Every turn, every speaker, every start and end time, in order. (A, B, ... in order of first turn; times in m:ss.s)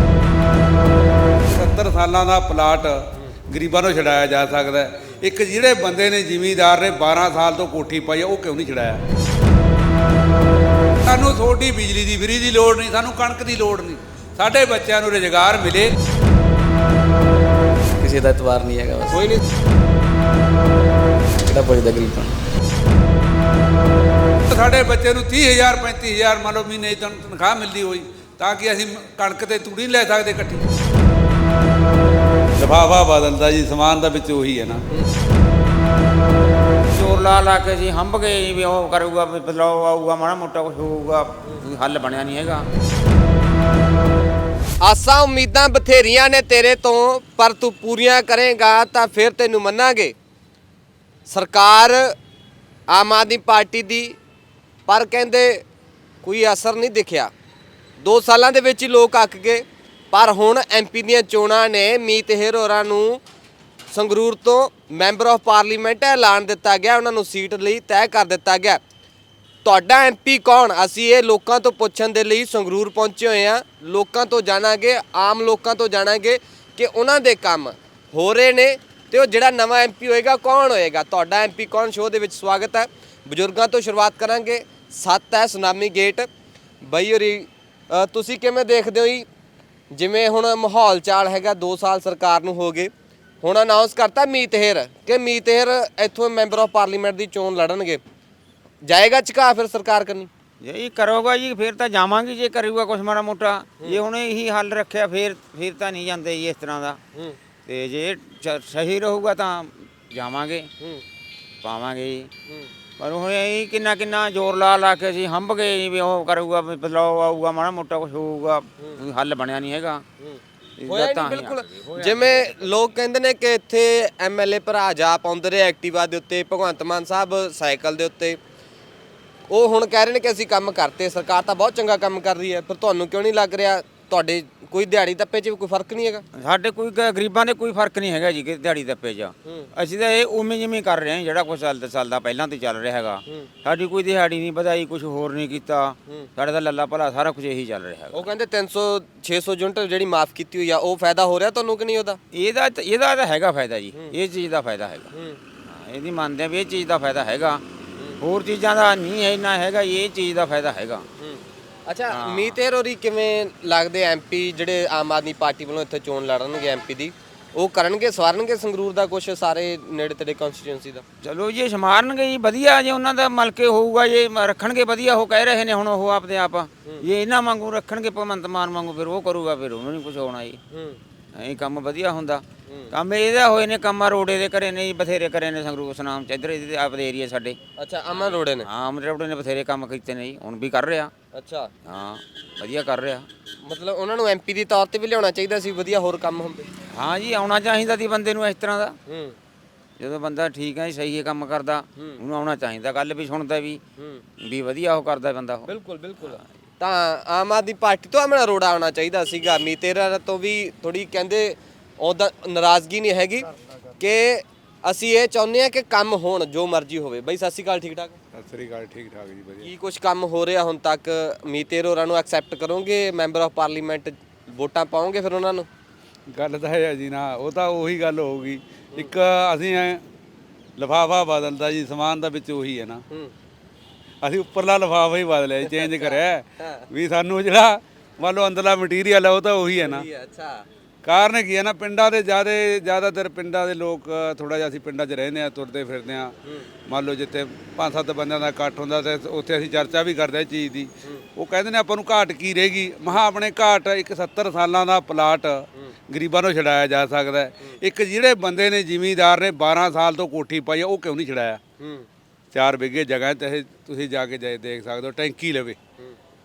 0:01.4-0:09.0 A
0:11.0-0:15.9 A
0:18.0-0:19.2 B
0:19.1-0:19.4 C
0:21.4-0:22.4 B
0:24.5-0:30.6 A
0:32.6-0:34.8 A
0:36.9-0:42.6 D
0:44.8-0:50.1 C
0:51.3-0:52.1 C
0:52.9-0:54.2 C
0:54.9-0:55.6 C
0:56.2-0:57.3 C
0:58.0-1:03.2 C
1:03.9-1:08.8 C
1:09.6-1:26.3 C
1:26.8-1:29.3 C
1:29.9-1:38.0 C
1:38.8-1:40.3 C
1:40.6-1:47.0 D
1:47.6-1:50.7 D
1:51.6-1:52.3 D
1:53.0-2:00.0 D
1:58.8-1:59.0 C
2:00.2-2:08.4 C
2:00.8-2:02.7 D
2:09.5-2:16.2 C
2:16.3-2:28.2 D
2:28.1-2:32.2 C
2:32.3-2:35.1 D
2:33.9-2:34.2 C
2:35.1-2:35.4 C
2:35.6-2:37.6 D
2:38.2-2:41.0 D
2:41.2-2:51.0 C
2:42.1-2:42.6 D
2:51.2-3:00.6 D
3:00.7-3:01.0 C
3:01.4-3:07.6 D
3:02.7-3:02.9 C
3:07.8-3:08.7 C
3:08.1-3:11.1 D
3:11.3-3:11.7 C
3:11.8-3:13.3 D
3:13.6-3:16.6 C
3:16.9-3:18.9 D
3:19.1-3:19.4 C
3:20.0-3:23.8 D
3:22.0-3:22.2 C
3:24.4-3:25.7 D
3:25.6-3:33.5 C
3:34.0-3:38.2 C
3:38.3-3:39.7 A
3:39.6-3:45.7 C
3:46.3-3:50.0 A
3:50.8-3:53.0 A
3:54.2-4:00.0 A
3:55.7-3:56.8 C
3:59.8-4:00.6 C
4:01.0-4:06.3 A
4:06.9-4:21.6 A
4:21.8-4:22.1 C
4:22.5-4:25.8 A